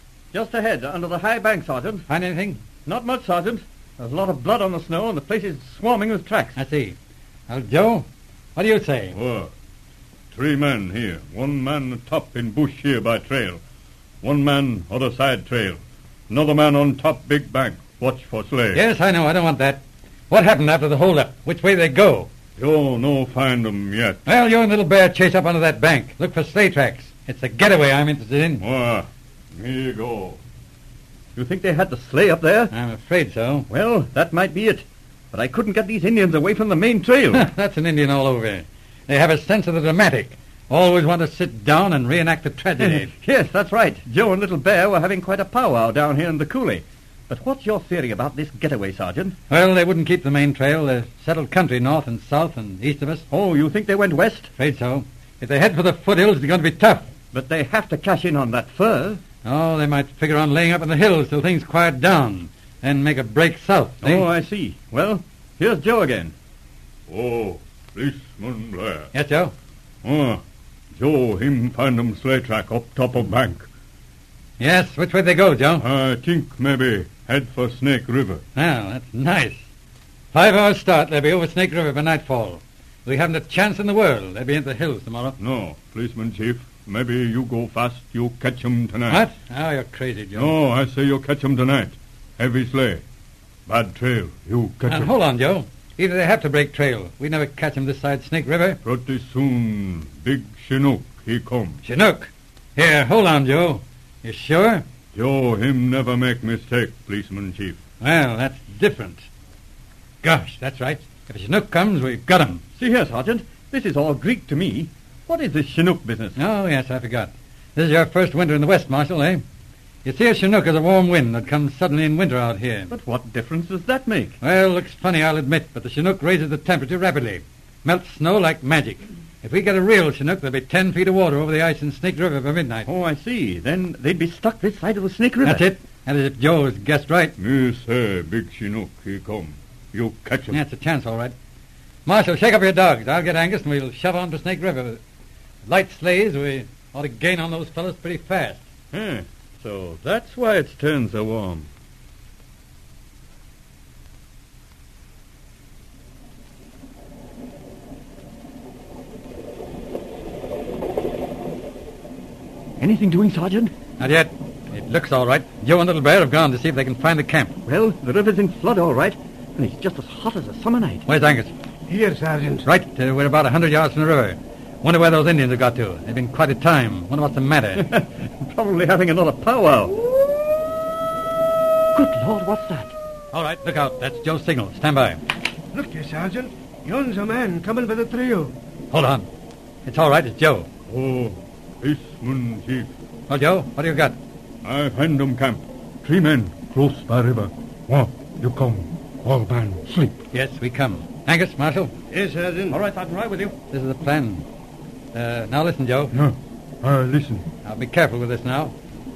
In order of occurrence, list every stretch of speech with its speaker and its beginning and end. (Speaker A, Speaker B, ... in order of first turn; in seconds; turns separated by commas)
Speaker A: 0.3-2.0, Speaker B: 2.1-2.6, Speaker A: 2.9-6.6, Speaker B: 6.5-7.0, Speaker B: 7.5-9.1, Speaker C: 9.1-9.5, Speaker C: 10.3-13.6, Speaker C: 14.2-15.8, Speaker C: 16.3-18.8, Speaker B: 18.7-22.3, Speaker C: 22.6-24.2, Speaker B: 24.2-28.6, Speaker C: 28.6-30.4, Speaker A: 31.3-32.7, Speaker B: 32.7-33.7, Speaker A: 33.7-37.5, Speaker B: 37.3-43.1, Speaker A: 42.8-49.4, Speaker B: 49.5-53.2, Speaker A: 53.3-54.5, Speaker B: 54.5-57.1, Speaker A: 57.3-59.2, Speaker B: 59.4-64.2, Speaker A: 64.0-66.3, Speaker C: 67.1-69.1, Speaker B: 69.1-69.5, Speaker C: 70.0-70.4, Speaker C: 71.0-73.7, Speaker B: 74.6-75.8, Speaker C: 75.8-78.4, Speaker B: 78.5-79.6, Speaker B: 80.3-85.4, Speaker C: 85.4-89.2, Speaker B: 89.1-90.5, Speaker C: 90.3-93.0, Speaker C: 93.7-95.1, Speaker B: 94.9-98.8, Speaker C: 98.8-101.8, Speaker B: 101.8-104.8, Speaker C: 105.1-107.8, Speaker B: 108.0-109.2, Speaker B: 110.2-112.6, Speaker A: 112.8-116.4, Speaker B: 116.3-119.4, Speaker B: 120.0-122.9, Speaker A: 122.9-124.3, Speaker B: 124.4-132.9, Speaker A: 132.8-135.7, Speaker B: 135.4-137.3, Speaker C: 137.4-140.6, Speaker B: 140.5-141.3, Speaker B: 142.1-145.0, Speaker B: 145.7-148.6, Speaker C: 148.9-149.2, Speaker A: 149.8-150.7, Speaker C: 150.0-151.7, Speaker A: 162.8-163.7, Speaker B: 164.0-167.6, Speaker A: 167.7-171.0, Speaker B: 171.1-171.5, Speaker D: 171.9-172.6, Speaker B: 172.6-177.8, Speaker A: 177.8-180.0, Speaker A: 181.9-182.9, Speaker B: 183.3-185.2, Speaker D: 185.7-188.5, Speaker B: 188.9-189.3, Speaker B: 189.8-190.7, Speaker C: 190.9-192.9, Speaker B: 193.3-194.2, Speaker C: 194.6-200.2, Speaker B: 200.3-201.9, Speaker D: 202.1-202.7, Speaker A: 202.7-203.5, Speaker B: 203.7-204.4, Speaker B: 205.1-206.1, Speaker C: 206.1-207.4, Speaker B: 207.6-208.7